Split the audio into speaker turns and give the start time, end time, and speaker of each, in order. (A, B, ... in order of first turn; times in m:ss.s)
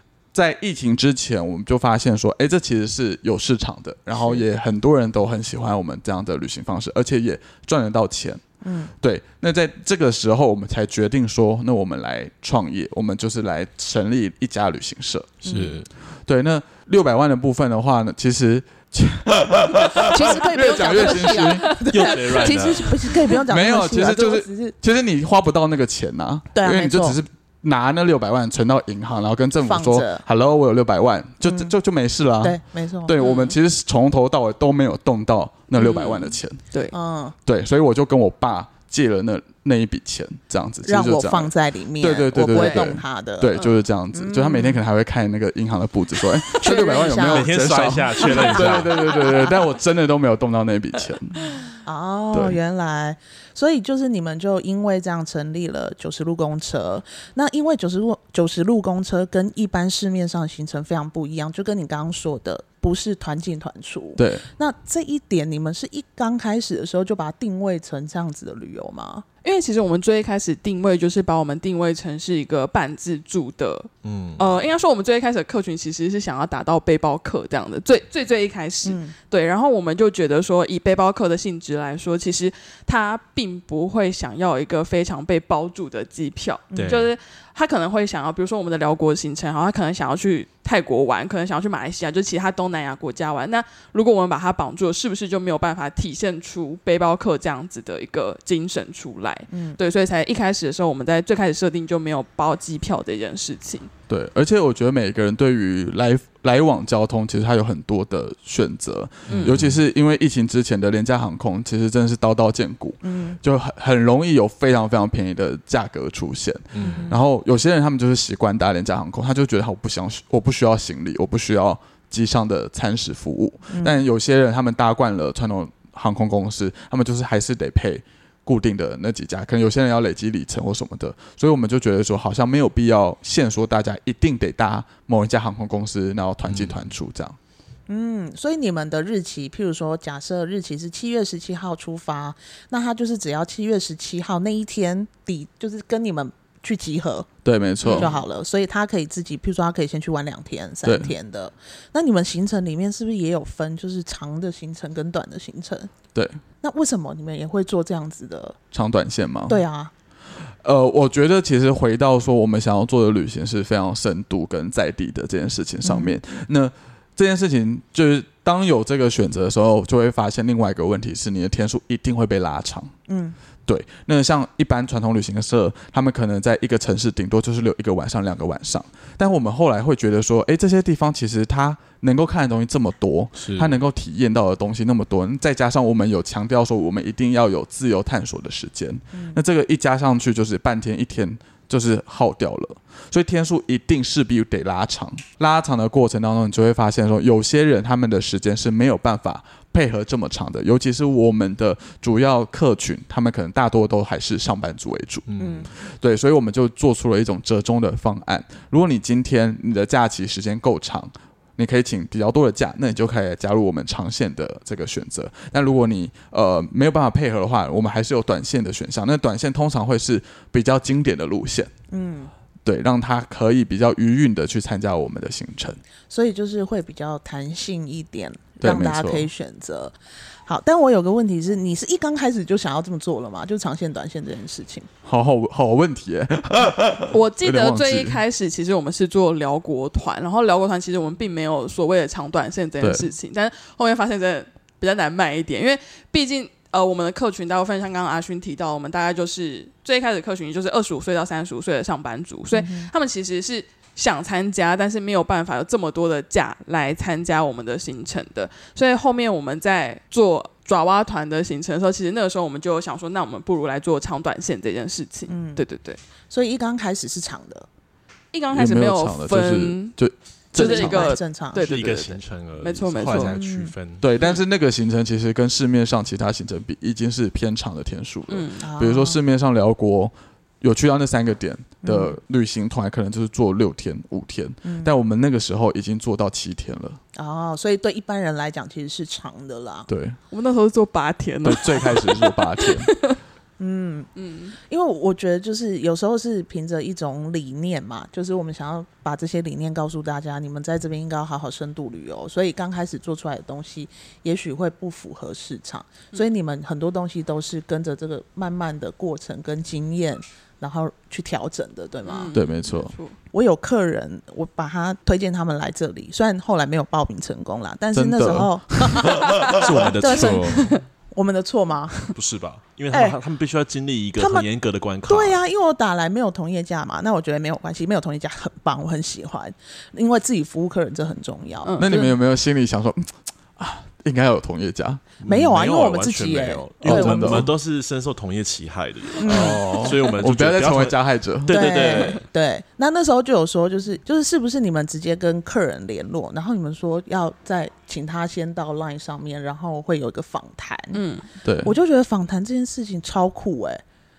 0:00.3-0:08.4 A
0:04.1-0:04.4 B
0:08.6-0:08.9 B
0:09.0-0:15.4 A
0:15.4-0:15.9 C
0:15.4-0:15.8 B
0:16.2-0:21.8 A
0:20.1-0:24.7 B
0:21.9-0:23.1 C
0:23.5-0:36.6 A
0:26.5-0:27.2 B
0:29.6-0:30.2 B
0:31.4-0:31.7 B
0:32.4-0:33.1 B
0:33.2-0:33.6 D
0:35.8-0:36.9 D
0:36.9-0:37.3 B
0:37.4-0:51.4 A
0:40.8-0:43.5 B
0:42.5-0:42.9 D
0:44.1-0:44.8 B
0:46.6-0:47.5 B
0:47.2-0:49.0 C
0:48.5-0:49.6 B
0:51.8-1:09.2 B
1:04.2-1:04.4 A
1:09.4-1:43.9 D
1:14.0-1:14.5 C
1:18.8-1:19.1 B
1:26.7-1:27.0 B
1:26.8-1:27.1 C
1:39.5-1:39.8 B
1:44.1-2:17.4 A
1:49.3-1:49.8 C
1:53.0-1:53.4 B
1:56.7-1:57.1 C
1:56.8-1:57.2 B
2:03.7-2:04.0 B
2:16.4-2:16.8 C
2:17.9-2:27.3 B
2:27.4-2:28.1 A
2:27.8-2:28.1 D
2:27.9-2:35.9 B
2:30.8-2:31.1 A
2:36.1-2:36.4 A
2:36.6-2:38.6 B
2:38.7-2:39.6 A
2:39.5-2:39.9 B
2:40.6-2:52.9 A
2:45.8-2:46.1 B
2:53.1-2:53.4 B
2:53.6-3:25.3 A
3:03.4-3:03.8 C
3:09.1-3:09.4 B
3:25.3-3:25.7 C
3:25.4-3:25.7 B
3:25.8-3:41.7 A
3:41.9-3:42.3 B
3:42.6-3:45.8 A
3:46.1-3:49.9 B
3:48.6-3:49.3 A
3:50.4-3:54.9 B
3:55.0-3:58.2 A
3:57.1-4:26.0 D
4:02.8-4:03.1 A
4:12.5-4:12.9 B
4:25.3-4:25.6 B
4:26.3-4:27.7 B
4:28.3-4:29.9 D
4:28.5-4:31.2 A
4:30.5-4:31.7 B
4:30.5-4:33.4 D
4:31.6-4:34.0 C
4:33.1-4:33.7 B
4:34.0-4:47.0 A
4:38.3-4:38.6 D
4:38.6-4:39.2 B
4:41.8-4:42.2 B
4:44.6-4:44.9 B
4:47.1-4:49.9 B
4:49.9-4:50.2 A
4:50.3-4:53.2 D
4:51.4-4:52.9 A
4:53.6-5:12.3 B
4:54.2-4:54.6 D
5:12.0-5:13.2 D
5:12.3-5:12.9 A
5:13.3-5:22.1 B
5:17.9-5:19.1 A
5:19.4-5:20.8 D
5:19.4-5:20.8 C
5:22.1-5:25.4 C
5:22.9-5:23.2 B
5:24.2-5:24.4 B
5:25.0-5:32.1 B
5:31.6-5:32.1 D
5:31.8-5:35.1 A
5:35.2-5:42.2 C
5:35.2-5:37.5 B
5:36.8-5:37.5 A
5:39.2-5:39.9 B
5:39.3-5:41.9 A
5:41.5-5:51.0 B
5:50.9-5:51.2 D
5:51.4-5:51.7 A
5:51.6-5:53.8 B